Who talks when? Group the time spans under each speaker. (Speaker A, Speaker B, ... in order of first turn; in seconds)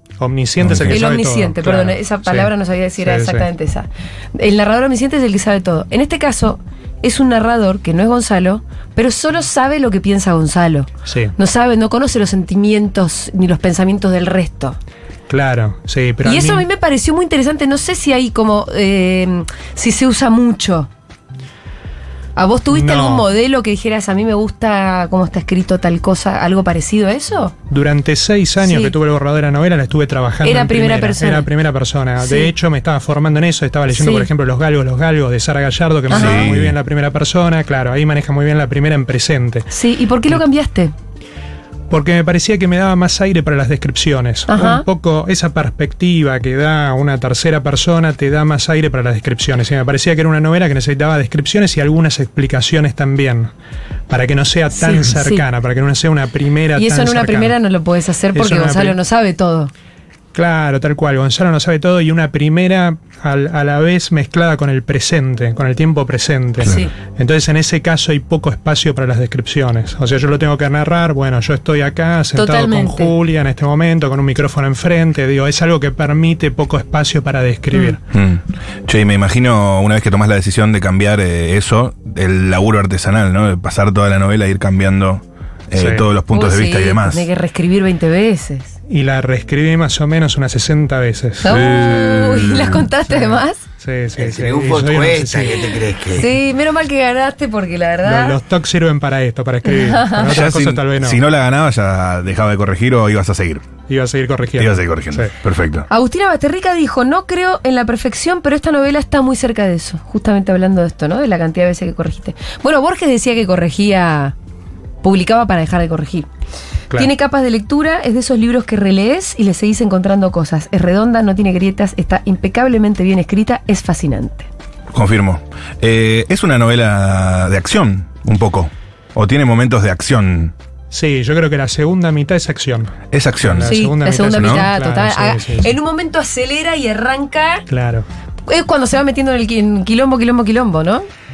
Speaker A: 0.2-3.5, 11.1-11.3, 15.3-16.7, 22.7-23.3, 27.7-39.7, 41.9-53.5, 54.1-57.6, 58.3-59.0, 60.3-78.0, 85.8-86.1, 88.9-91.7, 93.1-95.7, 98.0-101.2, 103.9-105.3, 130.9-135.7, 137.7-138.1
Speaker B: 0.6-1.0, 36.1-36.8, 78.1-87.3, 91.7-92.6, 100.2-103.7, 104.6-105.9, 124.9-130.5, 133.1-133.8, 134.4-134.7
Speaker C: 0.8-14.8, 16.2-20.9, 22.4-27.5, 28.6-28.9, 30.4-31.5, 32.2-32.5, 33.9-34.3, 36.1-36.5, 39.7-40.9, 44.5-44.8, 54.7-55.5, 56.8-59.7, 66.6-66.9, 72.3-73.1, 86.3-88.7, 91.4-93.6, 96.2-98.4, 99.7-100.3, 105.9-114.3, 115.0-116.3, 116.9-124.5, 133.6-137.7, 138.5-141.1
Speaker D: 94.2-96.3